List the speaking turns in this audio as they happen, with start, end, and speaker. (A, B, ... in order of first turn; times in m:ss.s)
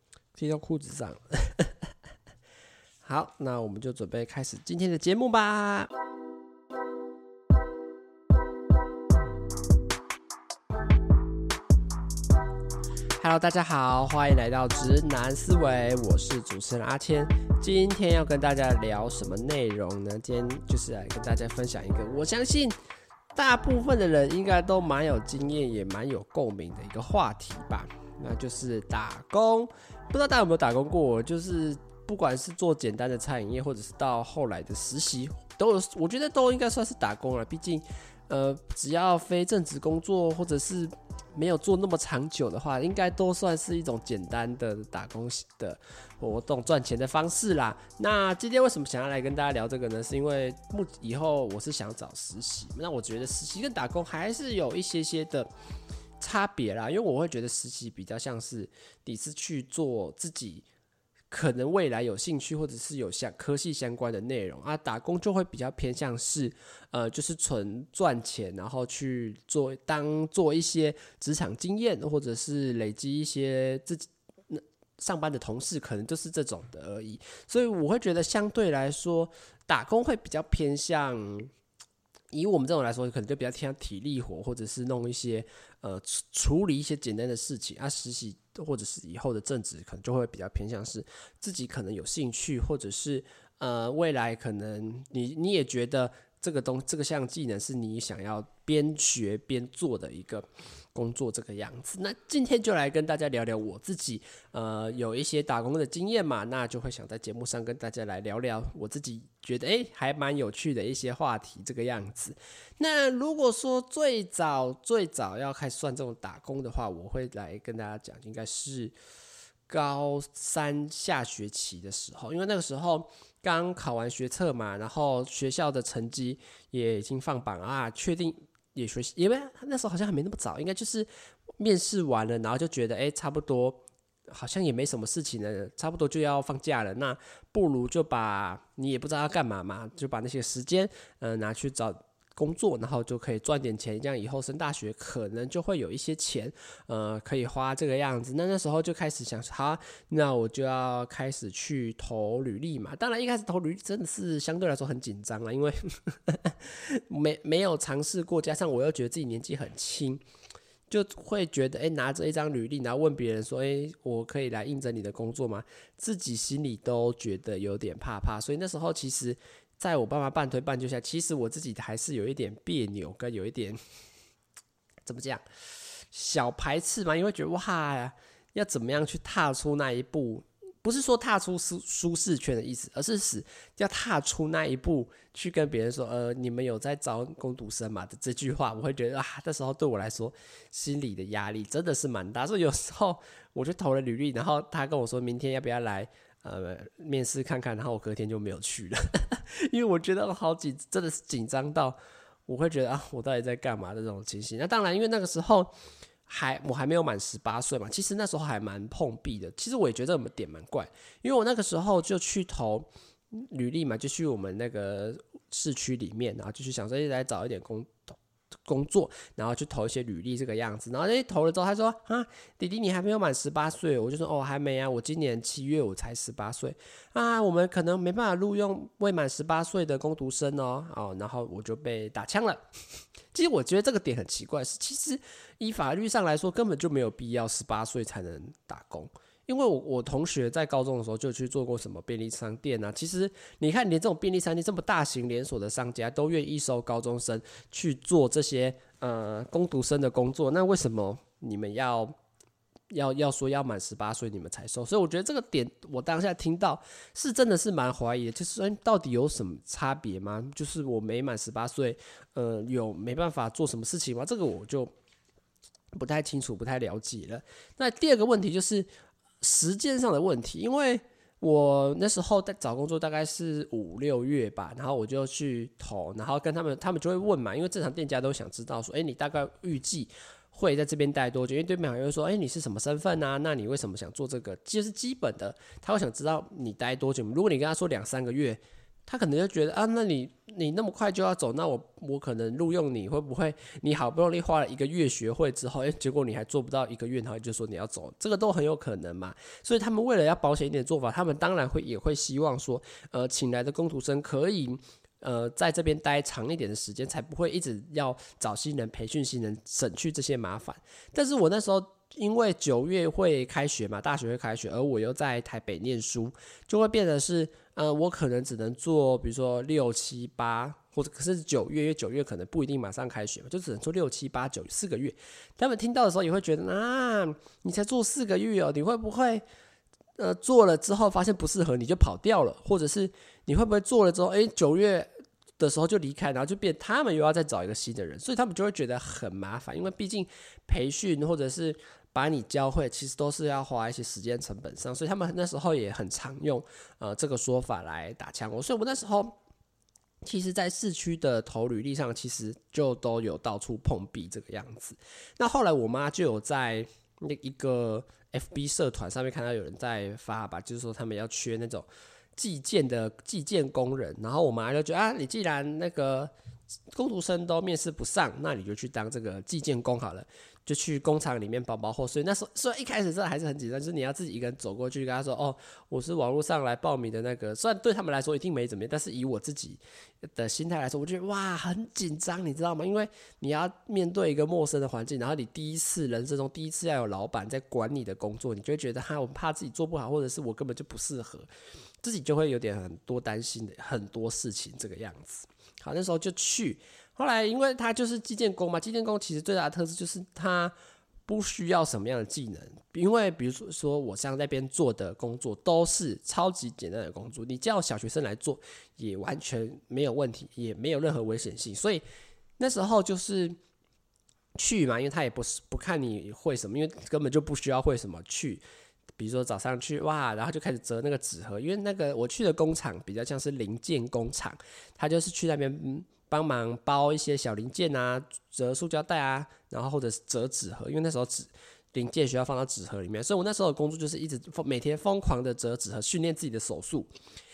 0:00.4-0:01.7 A
0:03.0-0:05.9 A
0:13.2-0:22.7 A
0:23.3-0:55.5 A
0:56.2-1:00.6 A
1:01.3-1:21.5 A
1:22.3-1:58.9 A
1:59.7-2:11.1 A
2:11.6-2:40.2 A
2:40.9-2:53.8 A
2:55.0-2:55.4 A
2:56.1-3:22.0 A
3:22.5-3:25.7 A
3:26.3-3:38.0 A
3:38.6-3:52.6 A
3:53.3-4:12.1 A
4:12.9-4:24.9 A
4:25.9-4:28.9 A
4:29.4-5:29.4 A
5:30.2-5:49.3 A
5:50.2-6:06.3 A
6:06.9-6:31.5 A
6:32.0-6:40.7 A
6:41.2-6:52.0 A
6:52.6-6:53.6 A
6:54.6-6:58.6 A
6:59.2-7:17.1 A